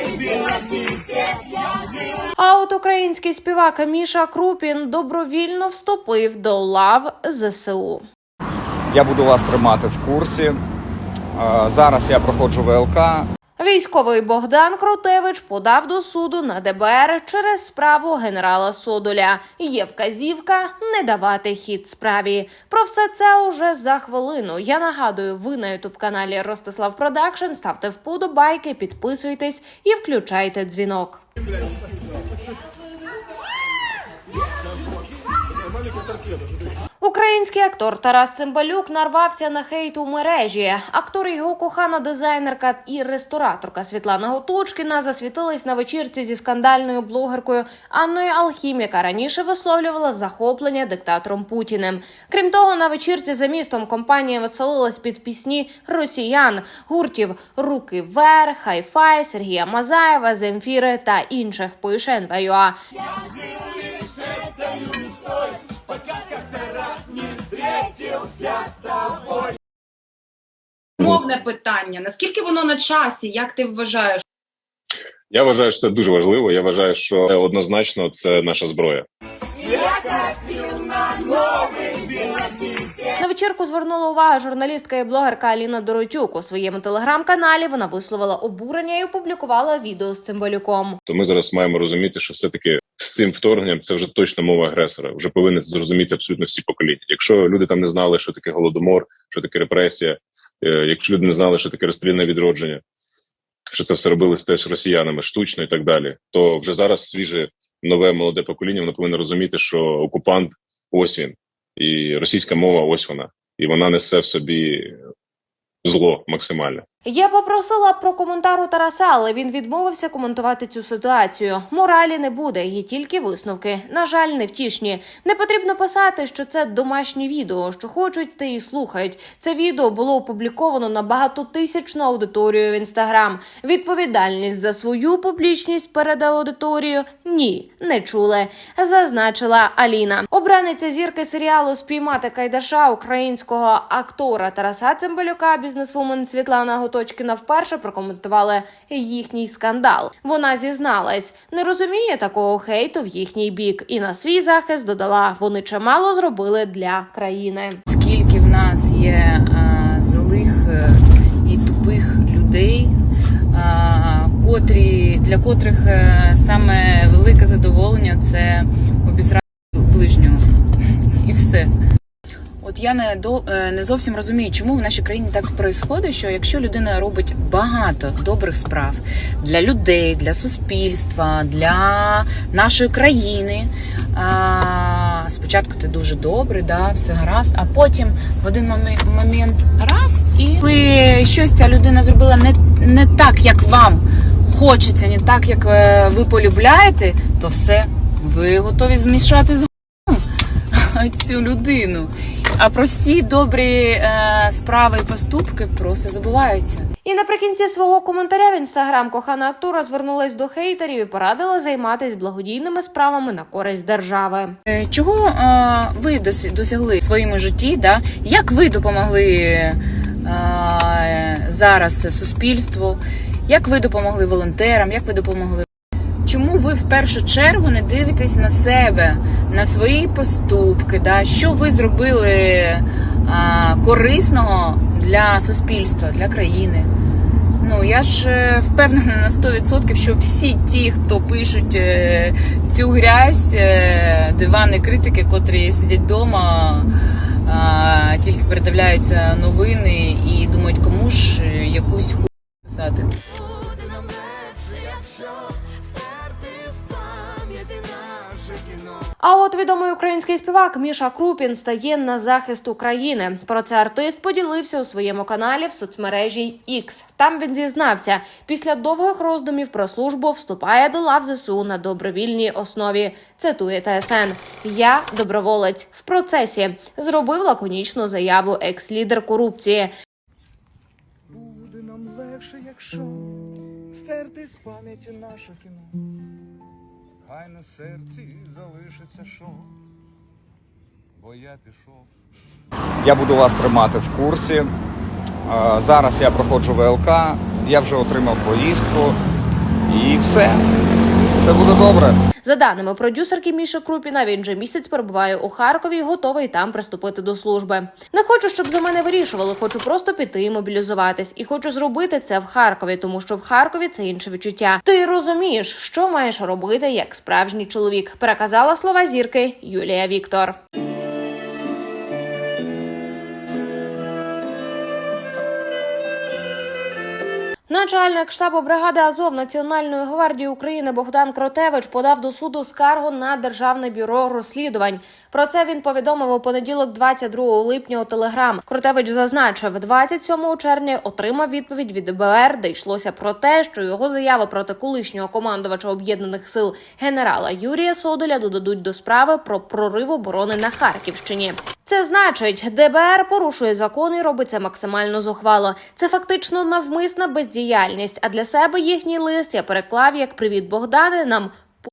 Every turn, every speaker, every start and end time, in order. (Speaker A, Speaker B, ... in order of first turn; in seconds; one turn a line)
Speaker A: 2.4-8.1
Speaker B: 8.9-10.6
Speaker B: 11.3-13.3
Speaker A: 13.6-31.2
Speaker A: 37.0-62.8
Speaker C: 71.0-74.2
Speaker D: 75.3-79.0
Speaker A: 83.1-91.0
Speaker D: 91.1-102.8
Speaker D: 103.7-115.0
Speaker D: 115.8-116.8
Speaker A: 117.0-157.8
Speaker E: 157.9-162.9
Speaker E: 163.5-170.5
Speaker E: 171.2-171.7
Speaker E: 172.6-200.2
Speaker E: 200.7-206.8
Speaker A: 207.0-214.6
Speaker E: 214.7-225.7
Speaker E: 226.2-236.9
Speaker E: 237.6-246.9
Speaker E: 247.4-253.1
Speaker A: 259.2-279.9
Speaker B: 281.8-282.0
Speaker F: 282.0-282.6
Speaker F: 284.2-285.3
Speaker F: 287.6-289.1
Speaker B: 293.0-294.7
Speaker B: 295.5-299.2
Speaker B: 299.9-300.7
Speaker B: 301.4-302.2
Speaker A: 302.4-320.6
Speaker A: 327.7-361.6